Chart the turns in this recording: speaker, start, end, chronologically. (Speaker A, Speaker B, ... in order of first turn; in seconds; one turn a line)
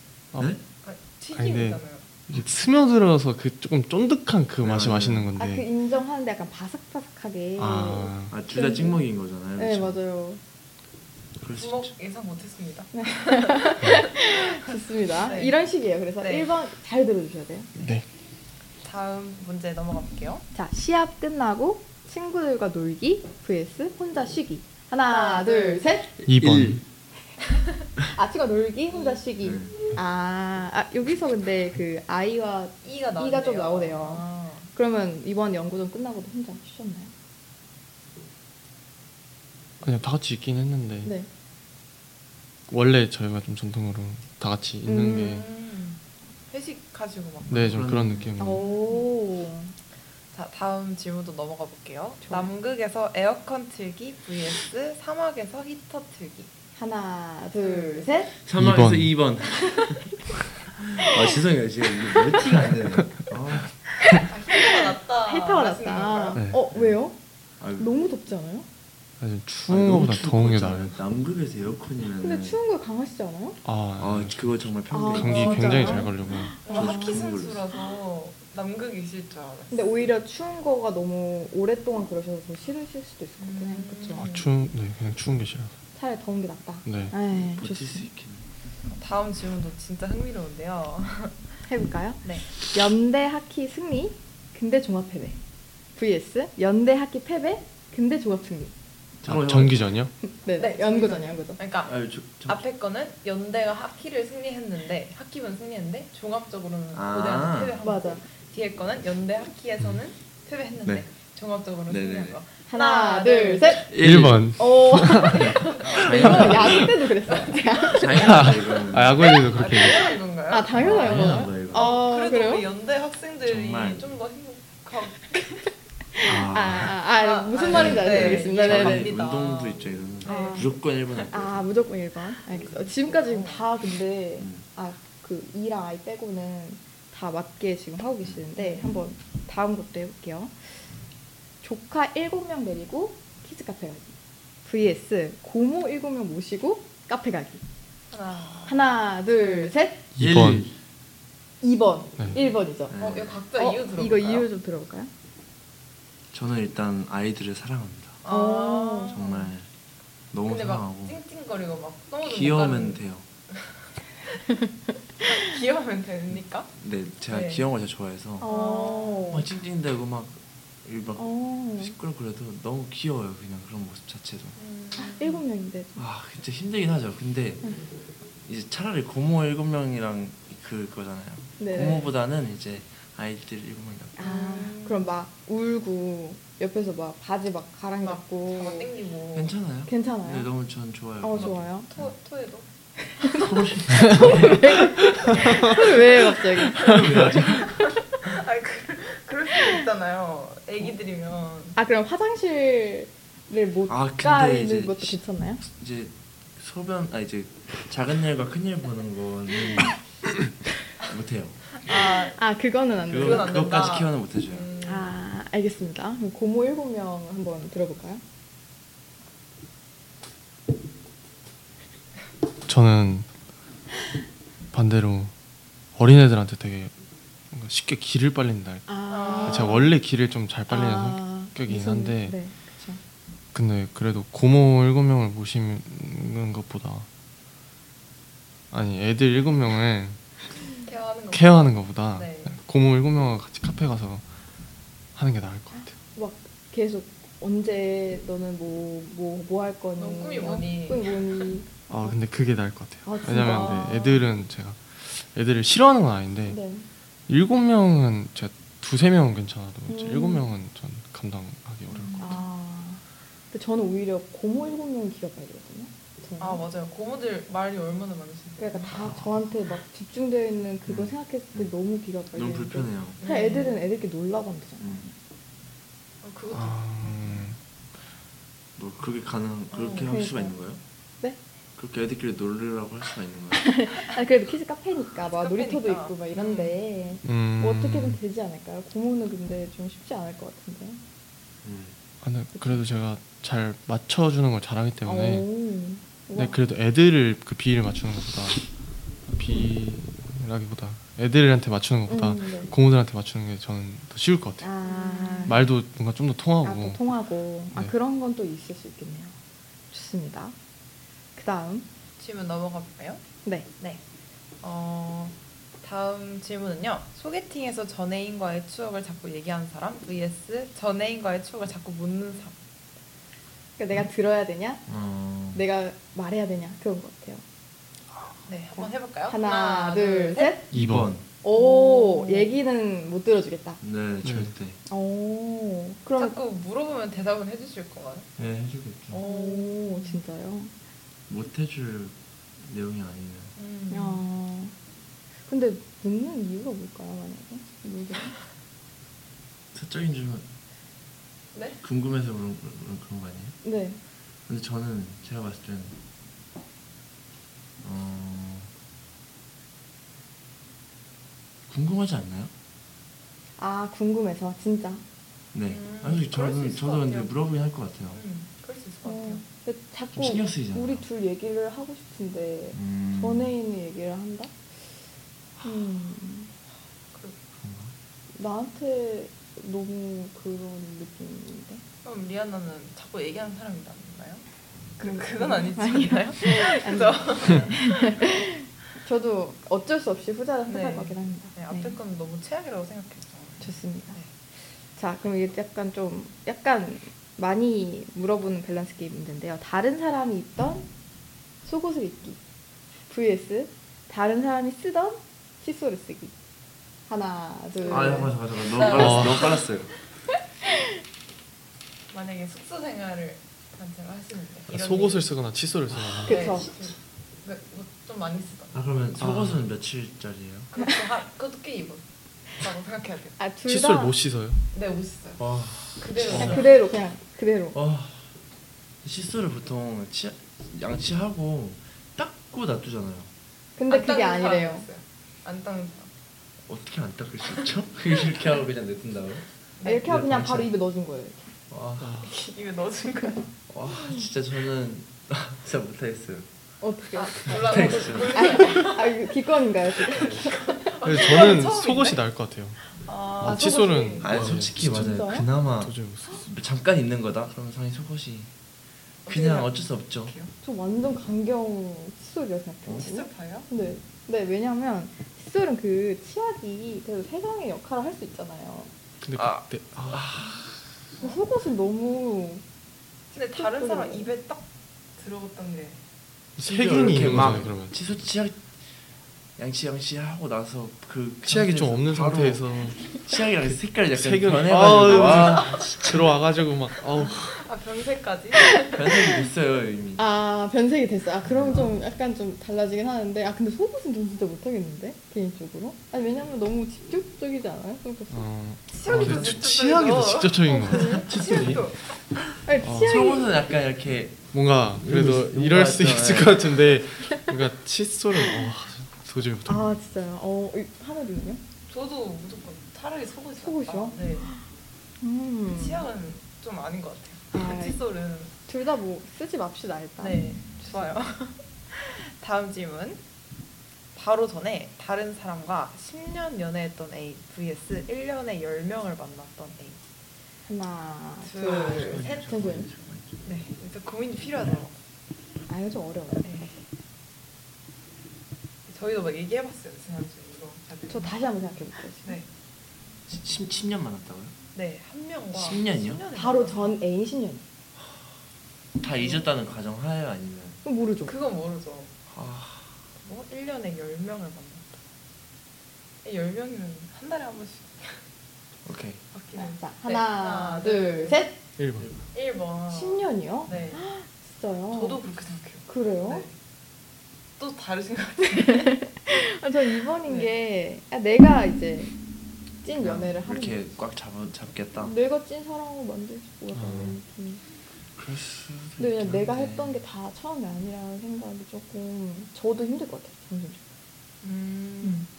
Speaker A: 0.8-2.0
Speaker B: 1.3-5.7
Speaker C: 4.6-5.3
Speaker D: 5.4-9.0
Speaker B: 7.6-8.3
Speaker C: 8.3-10.0
Speaker D: 9.6-10.4
Speaker C: 11.4-11.9
Speaker A: 11.6-14.6
Speaker D: 12.9-17.7
Speaker A: 15.2-15.6
Speaker A: 16.2-16.5
Speaker B: 17.8-18.1
Speaker A: 18.8-20.4
Speaker D: 20.6-26.1
Speaker A: 25.1-25.8
Speaker C: 26.3-26.8
Speaker B: 26.3-26.8
Speaker D: 28.1-37.1
Speaker A: 28.9-29.2
Speaker C: 29.4-29.8
Speaker A: 32.8-34.7
Speaker B: 39.8-41.1
Speaker B: 42.7-45.5
Speaker D: 44.9-45.4
Speaker A: 45.1-47.9
Speaker C: 47.5-48.3
Speaker B: 47.5-48.6
Speaker D: 48.4-49.7
Speaker A: 48.4-49.1
Speaker A: 50.3-56.5
Speaker D: 52.2-52.5
Speaker D: 56.8-58.3
Speaker A: 57.6-58.1
Speaker C: 58.5-60.1
Speaker B: 58.6-59.1
Speaker C: 60.7-64.2
Speaker A: 64.2-66.4
Speaker D: 65.3-67.2
Speaker C: 66.7-67.0
Speaker C: 67.6-67.9
Speaker D: 67.8-68.7
Speaker B: 69.2-71.0
Speaker C: 69.7-72.6
Speaker D: 72.2-73.6
Speaker B: 73.7-76.6
Speaker C: 74.0-77.7
Speaker D: 74.9-77.3
Speaker A: 75.6-76.0
Speaker A: 76.7-80.1
Speaker D: 79.7-84.3
Speaker A: 83.4-84.5
Speaker B: 84.2-85.7
Speaker D: 86.0-88.1
Speaker B: 86.9-87.1
Speaker C: 87.3-88.5
Speaker A: 88.9-91.4
Speaker D: 91.7-95.4
Speaker D: 96.0-98.7
Speaker C: 99.2-99.9
Speaker B: 99.2-100.1
Speaker D: 100.2-101.6
Speaker A: 100.6-113.9
Speaker C: 101.8-102.6
Speaker C: 106.9-107.8
Speaker D: 107.8-108.2
Speaker C: 111.9-112.4
Speaker D: 112.7-113.9
Speaker C: 113.8-117.0
Speaker B: 114.0-115.5
Speaker D: 114.6-118.2
Speaker A: 115.3-116.6
Speaker A: 117.2-118.1
Speaker C: 117.9-119.4
Speaker B: 118.1-120.2
Speaker A: 119.2-125.7
Speaker D: 120.5-122.7
Speaker C: 120.7-122.0
Speaker C: 123.5-124.1
Speaker D: 126.2-129.1
Speaker C: 126.2-127.0
Speaker A: 127.1-130.7
Speaker C: 127.7-131.6
Speaker D: 130.3-130.8
Speaker D: 131.3-140.5
Speaker A: 132.6-133.7
Speaker C: 134.4-134.6
Speaker A: 138.6-139.0
Speaker D: 141.6-144.1
Speaker D: 144.7-147.6
Speaker A: 148.1-149.7
Speaker D: 148.7-150.0
Speaker B: 150.2-150.7
Speaker C: 150.2-150.7
Speaker D: 151.6-152.9
Speaker C: 152.9-153.4
Speaker A: 153.0-154.5
Speaker D: 153.6-155.1
Speaker C: 156.3-158.2
Speaker A: 158.2-159.5
Speaker D: 158.3-159.2
Speaker C: 159.1-159.7
Speaker C: 160.3-161.2
Speaker A: 160.5-163.0
Speaker C: 162.2-163.2
Speaker A: 165.2-166.7
Speaker C: 166.3-168.5
Speaker A: 167.3-167.7
Speaker D: 168.4-169.5
Speaker A: 168.4-169.3
Speaker C: 169.3-174.6
Speaker D: 171.2-171.9
Speaker A: 174.6-175.4
Speaker D: 175.0-176.0
Speaker C: 176.0-177.6
Speaker C: 178.4-184.3
Speaker D: 181.6-182.1
Speaker D: 184.2-188.9
Speaker A: 184.2-185.1
Speaker A: 188.0-189.5
Speaker C: 189.3-192.1
Speaker D: 189.9-190.5
Speaker D: 191.2-191.9
Speaker A: 191.3-192.7
Speaker D: 193.1-196.9
Speaker C: 193.2-197.8
Speaker A: 195.2-195.8
Speaker A: 197.5-201.8
Speaker D: 201.8-205.6
Speaker C: 203.9-210.5
Speaker C: 211.0-211.7
Speaker A: 211.8-212.4
Speaker D: 212.3-213.8
Speaker C: 213.1-214.7
Speaker A: 213.1-215.1
Speaker D: 214.8-218.2
Speaker B: 222.7-223.3
Speaker B: 224.7-225.3
Speaker B: 225.9-226.9
Speaker B: 227.5-232.4
Speaker D: 228.9-229.9
Speaker A: 229.1-229.9
Speaker D: 230.7-233.0
Speaker B: 233.5-237.1
Speaker B: 238.7-240.2
Speaker A: 240.8-242.5
Speaker B: 241.3-244.2
Speaker B: 245.2-245.9
Speaker D: 246.2-252.2
Speaker A: 250.0-251.3
Speaker B: 251.9-256.6
Speaker D: 253.1-254.2
Speaker A: 253.5-254.1
Speaker D: 256.5-256.9
Speaker B: 257.3-262.4
Speaker D: 259.9-260.5
Speaker A: 261.9-262.4
Speaker D: 262.2-266.6
Speaker A: 266.4-269.1
Speaker D: 268.6-275.1
Speaker C: 270.9-271.7
Speaker C: 272.3-273.2
Speaker A: 273.2-273.8
Speaker C: 274.8-275.1
Speaker A: 276.2-277.3
Speaker B: 276.5-277.6
Speaker C: 278.8-280.8
Speaker A: 279.7-280.1
Speaker D: 280.1-280.5
Speaker C: 281.8-283.7
Speaker D: 283.5-291.0
Speaker A: 285.3-286.8
Speaker B: 287.2-288.2
Speaker C: 291.6-292.0
Speaker B: 292.2-295.5
Speaker D: 292.6-292.8
Speaker D: 295.1-296.6
Speaker B: 296.4-298.6
Speaker B: 299.3-304.7
Speaker D: 302.1-302.7
Speaker D: 304.6-305.6
Speaker A: 304.8-305.6
Speaker B: 305.5-307.0
Speaker D: 306.6-309.4
Speaker D: 309.9-310.6
Speaker D: 311.4-311.9
Speaker A: 312.2-313.2
Speaker A: 314.6-322.6
Speaker D: 323.8-324.8
Speaker C: 324.9-325.6
Speaker D: 325.5-327.4
Speaker A: 328.5-330.6
Speaker D: 328.8-330.6
Speaker B: 330.7-331.1
Speaker C: 330.7-331.2
Speaker D: 331.4-333.8
Speaker A: 331.5-332.6
Speaker C: 333.8-334.8
Speaker B: 334.2-334.5
Speaker D: 334.9-336.4
Speaker A: 336.2-338.3
Speaker C: 338.4-339.2
Speaker A: 339.1-340.2
Speaker D: 339.2-340.7
Speaker C: 341.3-343.5
Speaker A: 343.6-344.2
Speaker D: 343.9-344.7
Speaker D: 345.5-348.4
Speaker C: 349.7-350.4
Speaker A: 351.6-351.8
Speaker C: 351.8-353.6
Speaker D: 353.6-354.0
Speaker C: 354.5-356.0
Speaker C: 357.8-358.7
Speaker C: 361.7-362.5
Speaker D: 363.6-365.0
Speaker C: 365.5-368.2
Speaker A: 365.7-367.3
Speaker A: 368.1-369.4
Speaker D: 369.1-374.5
Speaker C: 370.1-371.1
Speaker C: 372.7-373.5
Speaker D: 375.6-376.5
Speaker A: 377.1-377.4
Speaker C: 377.6-377.9
Speaker D: 378.4-381.8
Speaker A: 382.0-384.4
Speaker A: 385.0-388.4
Speaker D: 385.0-391.9
Speaker A: 390.7-394.3
Speaker D: 393.6-394.2
Speaker D: 395.0-400.9
Speaker D: 401.6-402.4
Speaker D: 403.1-406.3
Speaker D: 407.1-408.3
Speaker A: 407.8-409.7
Speaker C: 407.9-409.9
Speaker B: 408.8-409.6
Speaker A: 412.1-415.3
Speaker B: 414.7-416.6
Speaker D: 416.3-416.7
Speaker A: 416.3-418.8
Speaker C: 418.7-420.7
Speaker B: 419.2-419.6
Speaker A: 420.7-422.0
Speaker A: 422.6-423.4
Speaker D: 423.4-424.1
Speaker B: 423.7-424.6
Speaker A: 424.7-425.4
Speaker C: 425.4-426.6
Speaker A: 426.0-426.8
Speaker B: 426.3-426.6
Speaker D: 426.4-427.8
Speaker C: 427.7-428.3
Speaker C: 429.0-433.3
Speaker D: 433.8-434.9
Speaker A: 433.9-436.1
Speaker C: 436.7-439.4
Speaker A: 439.8-440.1
Speaker D: 439.8-441.5
Speaker C: 440.0-440.7
Speaker C: 441.7-442.2
Speaker B: 442.0-442.3
Speaker A: 442.2-443.5
Speaker C: 443.7-446.5
Speaker D: 446.8-450.9
Speaker A: 447.1-449.2
Speaker C: 447.5-448.8
Speaker C: 450.1-450.5
Speaker A: 450.2-452.2
Speaker B: 451.0-452.8
Speaker A: 453.0-454.4
Speaker B: 453.4-455.1
Speaker D: 453.5-453.8
Speaker C: 454.2-458.5
Speaker D: 454.8-455.5
Speaker B: 455.8-456.4
Speaker C: 459.3-460.4
Speaker A: 459.3-460.5
Speaker D: 460.6-468.9
Speaker A: 463.0-463.7
Speaker B: 469.2-470.8
Speaker C: 469.4-470.6
Speaker D: 471.2-472.6
Speaker A: 473.3-474.6
Speaker D: 473.5-474.3
Speaker A: 475.2-476.0
Speaker B: 476.6-478.0
Speaker C: 476.6-478.6
Speaker C: 479.6-486.1
Speaker B: 481.5-483.1
Speaker B: 483.6-487.7
Speaker A: 485.1-486.1
Speaker A: 487.5-489.1
Speaker C: 488.9-490.2
Speaker D: 490.2-498.4
Speaker C: 491.4-491.9
Speaker B: 498.3-501.9
Speaker A: 498.9-502.0
Speaker C: 499.1-499.6
Speaker D: 500.7-501.3
Speaker D: 502.6-503.5
Speaker B: 502.8-503.2
Speaker C: 502.9-507.0
Speaker B: 504.5-510.0
Speaker D: 509.7-511.6
Speaker A: 511.9-514.5
Speaker D: 513.6-514.6
Speaker D: 515.2-516.1
Speaker A: 515.7-518.5
Speaker D: 517.5-518.0
Speaker D: 518.7-521.2
Speaker A: 520.2-523.2
Speaker A: 524.1-530.0
Speaker D: 530.6-532.9
Speaker A: 531.4-532.5
Speaker C: 531.6-533.4
Speaker A: 533.4-535.0
Speaker D: 535.7-536.7
Speaker A: 536.4-536.7
Speaker A: 538.9-541.4
Speaker D: 541.1-542.4
Speaker A: 542.2-542.5
Speaker C: 543.3-544.5
Speaker A: 544.7-547.0
Speaker C: 545.5-546.2
Speaker D: 546.3-547.6
Speaker C: 549.0-550.8
Speaker D: 550.9-551.4
Speaker A: 551.2-552.1
Speaker C: 552.3-553.0
Speaker A: 553.2-554.9
Speaker A: 556.2-558.2
Speaker C: 558.9-559.2
Speaker A: 559.3-561.4
Speaker D: 559.5-561.6
Speaker B: 561.8-562.1
Speaker A: 562.3-564.0
Speaker D: 562.9-565.2
Speaker A: 564.9-566.5
Speaker D: 565.9-566.5
Speaker A: 567.6-569.0
Speaker D: 568.6-572.1
Speaker A: 570.2-570.5
Speaker D: 572.8-573.9
Speaker C: 572.9-575.1
Speaker D: 575.0-577.6
Speaker B: 576.7-577.2
Speaker C: 578.2-580.0
Speaker D: 579.0-583.8
Speaker A: 584.4-585.3